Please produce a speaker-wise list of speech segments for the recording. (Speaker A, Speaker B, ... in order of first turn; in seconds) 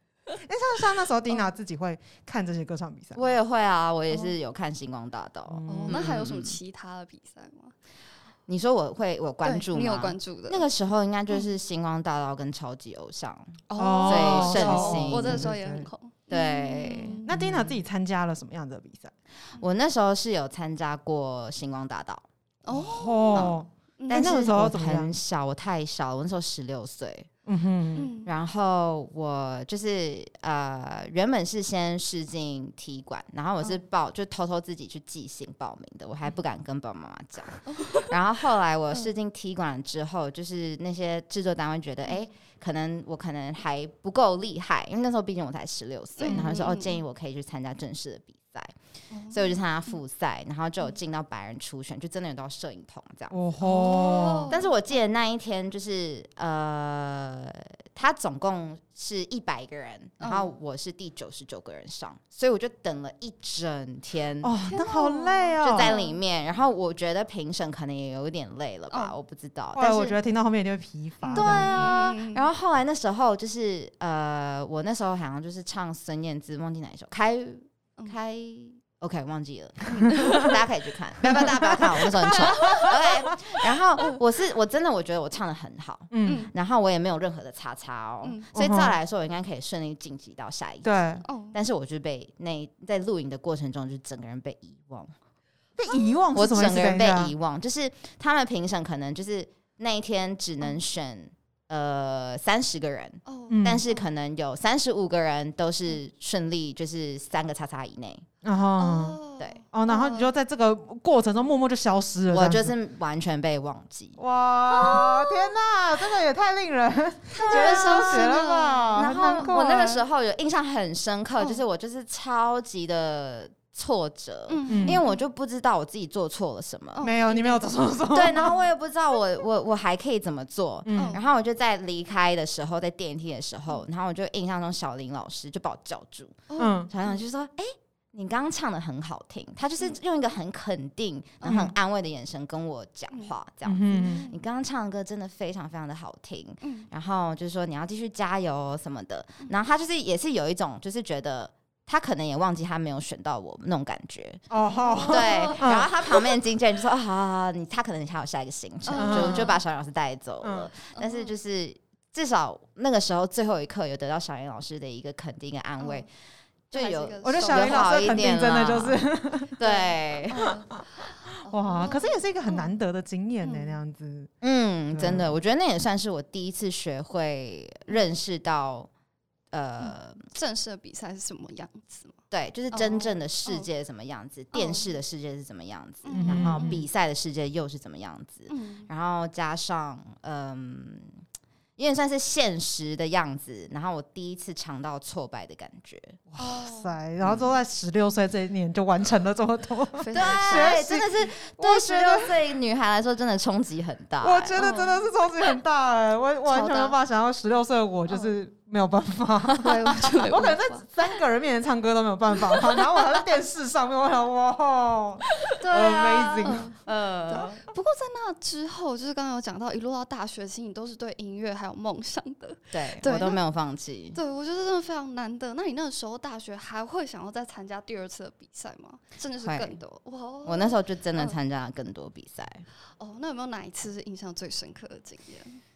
Speaker A: 0.4-3.3, 5.5-6.1, 13.8-15.9, 17.2-19.1, 22.7-25.2, 27.4-28.1, 46.3-46.5, 53.3-54.5, 64.4-65.9, 69.7-71.8, 81.3-82.9, 86.1-86.5, 88.5-88.9, 90.8-91.2, 95.8-97.3, 103.5-103.8, 108.4-109.2, 109.7-112.7, 114.2-119.9, 124.7-125.0, 127.0-128.5, 130.8-131.2, 136.6-136.9, 141.4-141.7, 143.6-144.2, 154.5-155.9, 158.9-159.6, 160.4-160.7, 167.2-169.6, 171.3-174.3, 174.9-175.3, 186.1-186.8, 196.3-202.3, 204.2-216.7
Speaker B: 3.1-6.6, 8.5-15.5, 16.3-17.8, 19.6-22.3, 24.1-27.3, 28.2-48.7, 49.3-64.5, 65.6-70.2, 71.3-95.1, 96.3-108.2, 112.3-114.2, 117.3-118.3, 118.9-127.0, 128.1-154.4, 155.1-166.1, 166.7-169.0, 169.6-170.5, 174.4-178.9, 179.5-180.2, 182.3-191.1, 191.8-196.2, 197.2-197.5, 200.1-204.6, 216.8-217.6, 222.7-224.2, 229.4-229.8, 230.4-232.6
Speaker C: 5.7-7.7, 9.4-10.6, 13.7-17.3, 22.6-24.4, 27.9-28.3, 37.7-38.1, 46.2-47.0, 49.1-50.0, 53.6-54.7, 60.2-60.5, 64.7-66.2, 71.2-72.4, 79.9-80.6, 82.3-83.0, 86.2-86.5, 88.2-88.5, 91.2-91.6, 103.2-104.0, 108.8-110.3, 114.8-115.2, 117.3-119.9, 121.4-121.6, 124.5-125.2, 126.9-127.8, 130.9-131.2, 136.5-137.2, 143.9-144.4, 146.6-146.9, 154.7-155.7, 158.8-159.6, 160.9-161.3, 165.8-166.1, 166.7-168.2, 169.6-172.7, 173.4-173.8, 179.8-182.2, 182.7-183.7, 184.5-184.9, 186.0-186.8, 188.5-188.9, 196.4-196.9, 200.0-200.8, 204.6-205.1, 206.5-206.9, 208.1-208.3, 209.6-210.8, 215.4-216.8, 217.3-223.4, 224.1-231.4, 233.0-235.6